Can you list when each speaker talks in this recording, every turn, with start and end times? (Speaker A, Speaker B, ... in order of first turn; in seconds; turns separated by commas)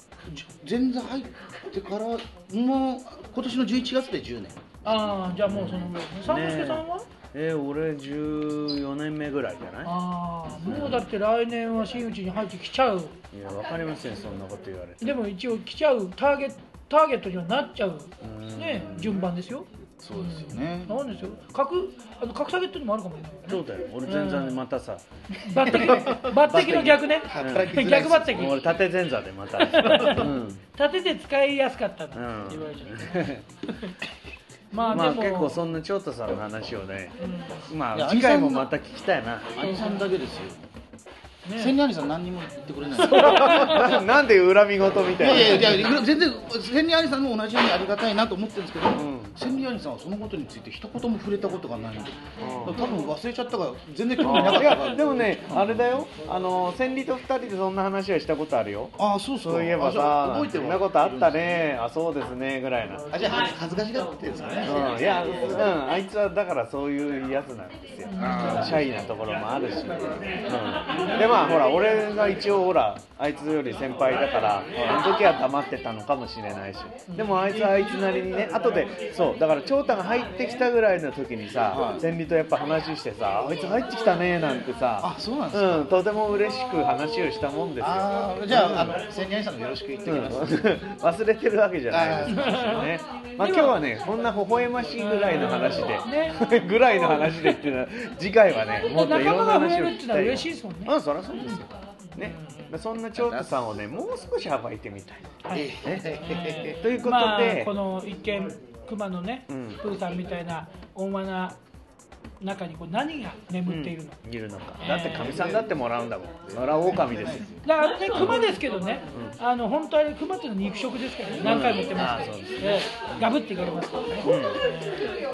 Speaker A: 0.2-5.4, Speaker B: 4.8-7.1, Speaker C: 5.5-9.9, Speaker B: 9.8-13.2, Speaker C: 10.6-11.0, Speaker C: 13.3-15.2, Speaker B: 15.0-24.6, Speaker C: 18.2-19.3, Speaker A: 20.0-21.2, Speaker C: 23.5-25.0, Speaker B: 25.4-28.6, Speaker A: 25.6-26.3, Speaker C: 25.6-30.6, Speaker A: 27.1-28.5, Speaker B: 29.6-33.1, Speaker C: 32.1-33.4, Speaker B: 34.7-35.6, Speaker C: 34.9-37.1, Speaker B: 37.2-37.6, Speaker C: 37.7-39.6, Speaker A: 37.9-38.7, Speaker A: 39.6-40.7, Speaker B: 39.6-40.0, Speaker B: 41.4-41.8, Speaker A: 41.5-43.9, Speaker C: 43.0-45.9, Speaker B: 43.0-44.0, Speaker A: 45.2-56.1, Speaker C: 48.9-49.3, Speaker C: 52.4-52.8, Speaker C: 54.2-63.0, Speaker A: 59.0-61.7, Speaker A: 63.1-65.8, Speaker C: 64.7-89.0, Speaker B: 68.0-68.7, Speaker A: 68.2-68.9, Speaker A: 74.8-75.0, Speaker B: 77.1-77.5, Speaker A: 81.7-82.1, Speaker A: 85.0-86.0, Speaker A: 87.8-90.7, Speaker C: 90.0-105.3, Speaker A: 91.9-92.9, Speaker B: 92.3-92.9, Speaker B: 93.4-93.8, Speaker B: 95.0-96.4, Speaker B: 97.1-97.5, Speaker B: 98.8-101.6, Speaker B: 102.2-102.7, Speaker A: 103.1-103.6, Speaker B: 105.4-111.6, Speaker A: 105.5-106.8, Speaker C: 105.8-106.2, Speaker C: 106.7-107.7, Speaker C: 109.5-109.8, Speaker B: 112.4-114.2, Speaker C: 113.7-117.5, Speaker B: 114.8-115.5, Speaker A: 115.2-115.7, Speaker A: 116.5-117.6, Speaker B: 117.6-125.0, Speaker C: 118.1-118.5, Speaker C: 121.3-122.8, Speaker C: 124.2-124.6